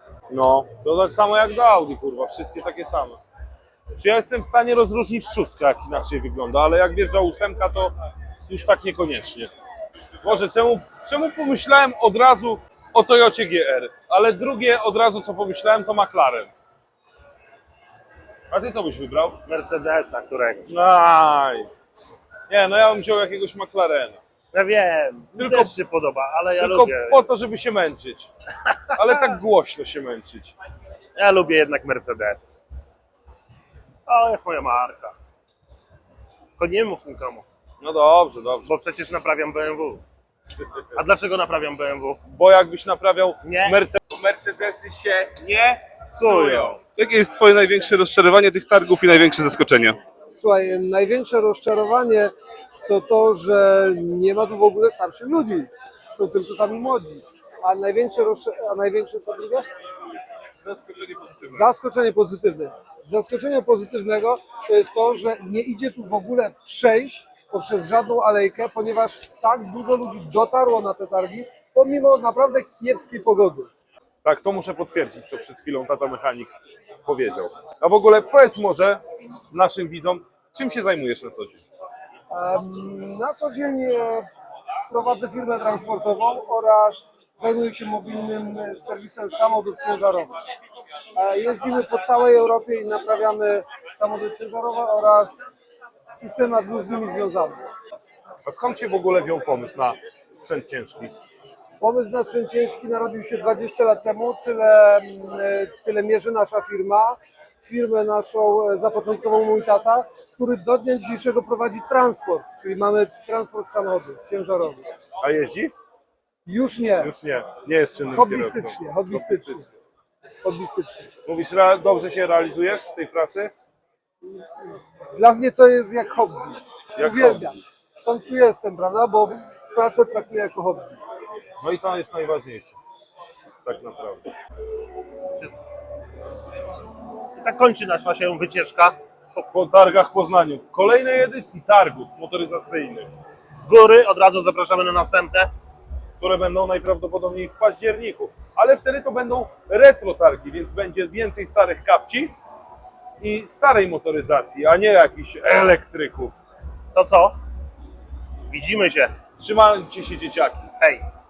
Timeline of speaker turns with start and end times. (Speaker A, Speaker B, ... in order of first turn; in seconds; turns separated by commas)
Speaker A: 0.3-3.2, Speaker A: 4.0-7.9, Speaker A: 8.4-9.5, Speaker A: 10.2-16.5, Speaker A: 18.5-19.4, Speaker B: 19.4-20.7, Speaker A: 20.7-21.7, Speaker A: 22.5-24.2, Speaker B: 24.5-27.2, Speaker A: 25.3-25.7, Speaker A: 26.6-28.3, Speaker A: 29.0-30.5, Speaker B: 31.1-32.5, Speaker B: 34.0-35.1, Speaker B: 36.6-37.5, Speaker A: 37.8-38.7, Speaker B: 38.6-40.0, Speaker A: 40.5-41.0, Speaker B: 40.9-42.2, Speaker A: 42.3-46.8, Speaker B: 43.4-43.8, Speaker B: 46.1-46.8, Speaker C: 47.0-49.9, Speaker D: 50.3-59.7, Speaker A: 60.7-61.4, Speaker D: 61.5-73.7, Speaker A: 74.2-76.5, Speaker A: 77.0-81.6, Speaker D: 82.3-84.2, Speaker D: 84.9-90.4, Speaker D: 91.1-95.3, Speaker D: 96.1-97.6, Speaker A: 98.4-101.1, Speaker D: 101.8-114.9, Speaker A: 115.2-115.7, Speaker D: 116.5-117.1, Speaker A: 117.0-119.8, Speaker D: 118.1-119.7, Speaker D: 120.4-121.1, Speaker A: 121.2-123.5, Speaker D: 125.1-131.0, Speaker A: 127.0-127.5, Speaker A: 131.6-132.8, Speaker A: 133.6-134.2, Speaker B: 137.4-139.4, Speaker A: 139.5-143.1, Speaker B: 143.5-145.5, Speaker A: 146.2-152.3, Speaker A: 153.2-156.3, Speaker B: 156.9-157.4, Speaker B: 158.5-159.2, Speaker A: 159.4-160.7, Speaker B: 160.8-161.1